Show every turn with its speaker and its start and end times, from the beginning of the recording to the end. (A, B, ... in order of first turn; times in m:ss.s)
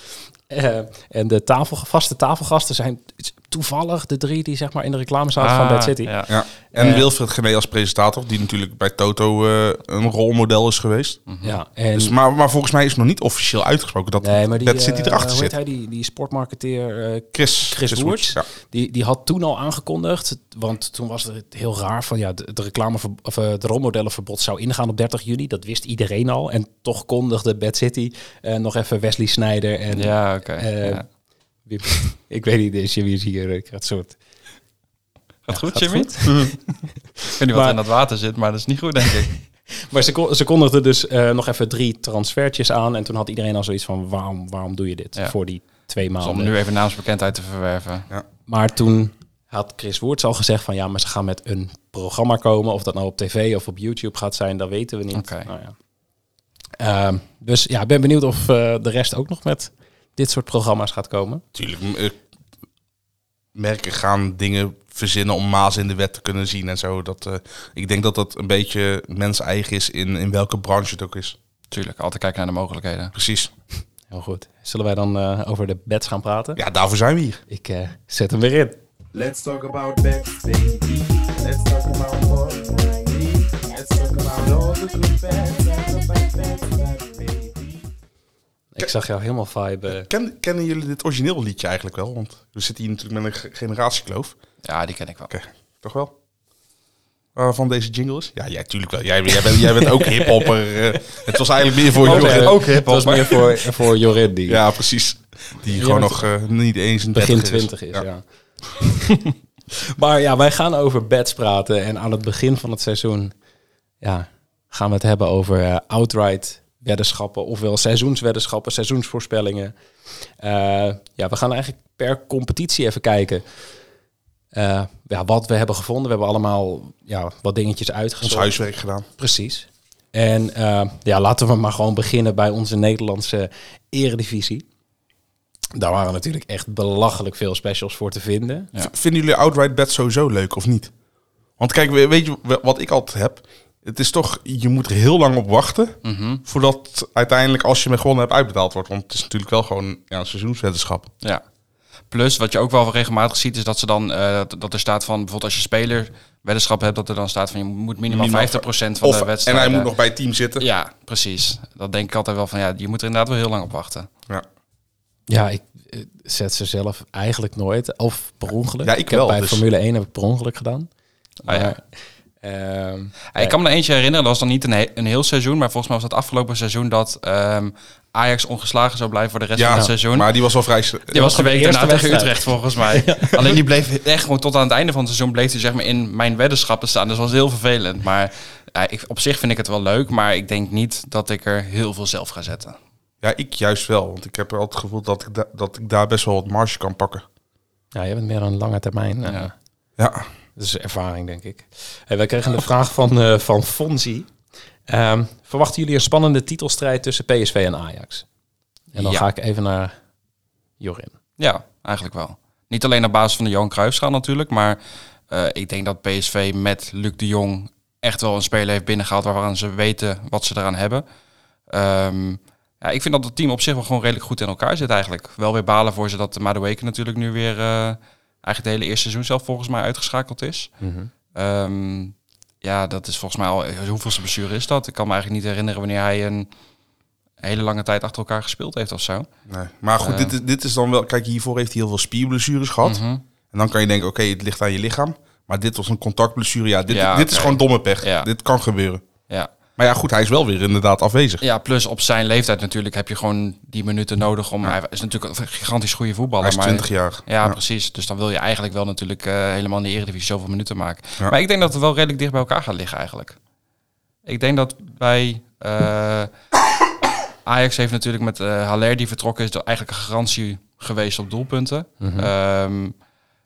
0:00.5-0:06.1 A
0:05.4-0:06.3 B
0:06.3-0:11.2 C
0:06.7-0:07.1 A
0:11.3-0:11.6 B
0:11.4-0:12.1 A
0:11.9-0:15.5 C
0:14.2-0:31.0 A
0:17.3-0:18.4 C
0:29.9-0:31.0 B
0:31.6-0:34.2 A
0:35.5-0:36.3 B
0:35.5-0:36.6 A
0:37.3-0:39.3 B
0:37.5-0:37.8 A
0:39.9-0:46.5 A
0:46.2-0:48.1 B
0:48.5-0:55.7 A
0:55.1-0:55.5 B
0:56.8-1:01.4 A
1:01.5-1:02.2 C
1:03.5-1:11.4 C
1:11.7-1:13.1 B
1:13.1-1:13.5 C
1:14.1-1:16.6 A
1:16.6-1:17.4 C
1:17.5-1:18.8 A
1:19.2-1:20.3 D
1:21.5-1:21.9 D
1:24.1-1:24.8 D
1:28.7-1:30.1 A
1:29.9-1:34.4 C
1:34.6-1:35.3 B
1:35.3-1:36.1 C
1:37.3-1:42.6 C
1:40.0-1:40.5 A
1:42.0-1:43.5 B
1:42.0-1:44.6 A
1:44.5-1:48.1 C
1:45.7-1:46.3 A
1:47.1-1:48.2 A
1:48.8-1:49.2 A
1:49.9-1:53.3 A
1:54.0-1:59.7 A
2:00.4-2:03.4 A
2:04.5-2:08.5 A
2:08.2-2:09.0 C
2:09.2-2:14.6 A
2:15.8-2:18.7 A
2:18.8-2:20.9 C
2:21.6-2:31.1 C
2:26.0-2:26.4 B
2:32.1-2:39.9 B
2:38.1-2:40.6 C
2:40.6-2:44.1 B
2:45.3-2:50.9 A
2:48.8-2:49.6 C
2:51.4-2:51.8 A
2:51.4-2:51.7 B
2:52.4-2:53.6 A
2:53.3-3:00.3 B
2:59.6-3:01.2 C
3:01.1-3:12.8 B
3:01.1-3:03.5 A
3:13.2-3:17.2 C
3:17.9-3:19.5 A
3:20.0-3:20.3 C
3:20.6-3:24.3 A
3:24.9-3:28.2 A
3:28.9-3:29.9 A
3:29.0-3:29.2 B
3:30.8-3:31.1 A
3:31.4-3:34.8 B
3:35.3-3:41.0 B
3:41.7-3:50.7 B
3:50.8-3:51.1 A
3:51.3-3:56.5 B
3:57.4-3:59.3 B
3:59.5-4:03.0 C
4:00.0-4:00.3 B
4:02.8-4:03.2 B
4:03.5-4:09.0 C
4:06.9-4:08.3 B
4:09.8-4:11.4 C
4:11.4-4:23.4 B
4:16.4-4:17.6 C
4:24.2-4:26.3 B
4:27.4-4:32.9 B
4:32.0-4:32.3 A